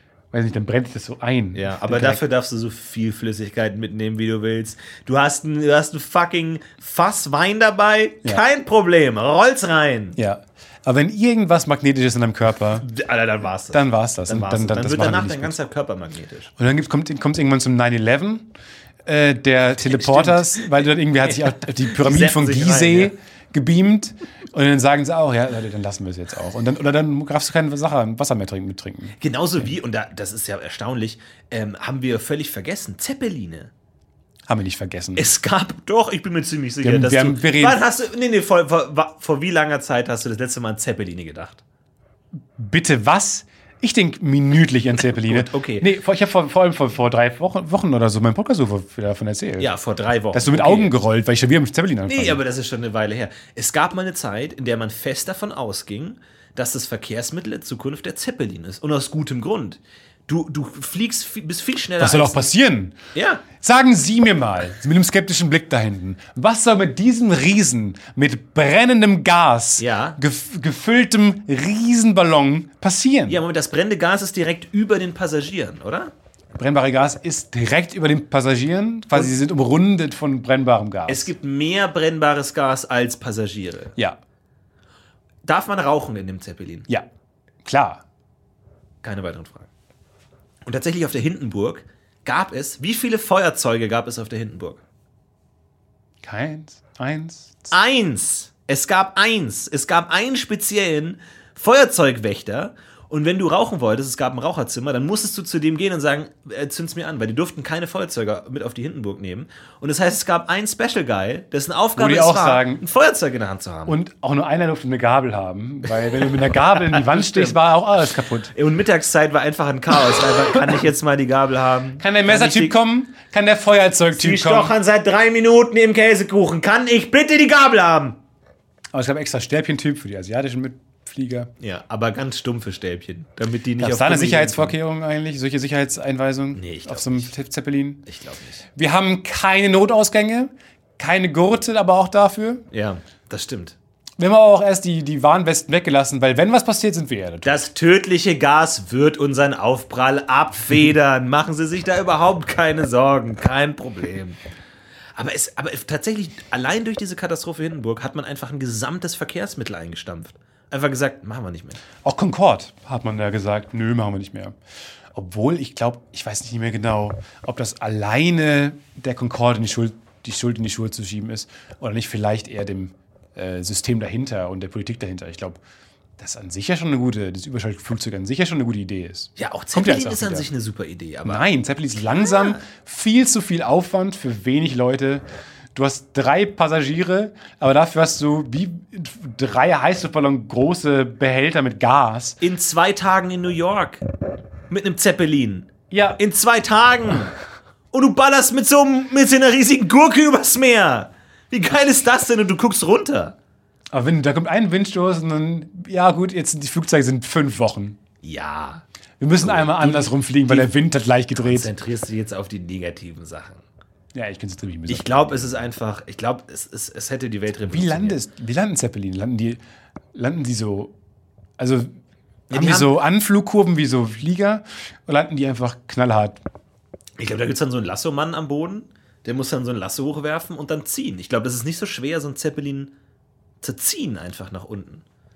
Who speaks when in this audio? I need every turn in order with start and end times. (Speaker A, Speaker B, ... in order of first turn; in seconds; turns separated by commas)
Speaker A: 0.3-2.2, Speaker B: 1.6-10.2, Speaker A: 10.2-12.9, Speaker B: 12.8-16.5, Speaker A: 13.7-15.6, Speaker A: 16.6-18.5, Speaker A: 19.1-29.7, Speaker B: 19.9-23.1, Speaker B: 29.2-33.7, Speaker A: 34.5-35.3, Speaker B: 35.2-41.6, Speaker A: 36.8-37.8, Speaker A: 42.5-49.7, Speaker B: 45.2-45.9, Speaker B: 49.6-50.9, Speaker A: 50.3-52.4, Speaker B: 52.1-62.5, Speaker A: 62.0-63.0, Speaker B: 63.1-63.5, Speaker A: 63.5-73.4, Speaker B: 69.8-70.2, Speaker B: 73.3-76.1, Speaker A: 76.6-81.3, Speaker B: 81.1-84.0, Speaker B: 85.5-86.9, Speaker A: 87.6-88.0, Speaker B: 89.0-89.7, Speaker B: 90.7-94.8, Speaker A: 96.2-97.7, Speaker B: 97.7-114.0, Speaker A: 112.0-112.8, Speaker A: 113.9-118.5, Speaker B: 116.2-117.6, Speaker B: 118.5-122.8, Speaker A: 122.0-124.8, Speaker B: 124.1-128.2, Speaker A: 128.9-131.5, Speaker B: 131.6-134.8, Speaker A: 133.8-138.0, Speaker B: 136.6-137.3, Speaker B: 138.1-138.7, Speaker A: 138.8-142.7, Speaker B: 142.7-143.8, Speaker A: 144.2-147.7, Speaker B: 147.4-154.4, Speaker B: 155.2-161.8, Speaker A: 162.0-164.6, Speaker A: 165.1-175.6, Speaker A: 176.2-180.5, Speaker B: 179.4-181.4, Speaker A: 181.2-192.4, Speaker B: 192.4-194.0, Speaker B: 194.7-197.3, Speaker A: 195.9-196.2, Speaker B: 197.9-203.3, Speaker A: 203.9-208.0, Speaker B: 208.2-208.8, Speaker A: 209.2-211.7, Speaker B: 209.3-210.7, Speaker B: 211.3-213.6, Speaker A: 214.1-215.7, Speaker B: 214.9-218.2, Speaker A: 217.7-219.6, Speaker A: 220.1-220.9, Speaker A: 221.6-221.9, Speaker B: 222.5-223.0, Speaker A: 222.5-226.4, Speaker B: 227.2-232.9, Speaker B: 233.6-235.0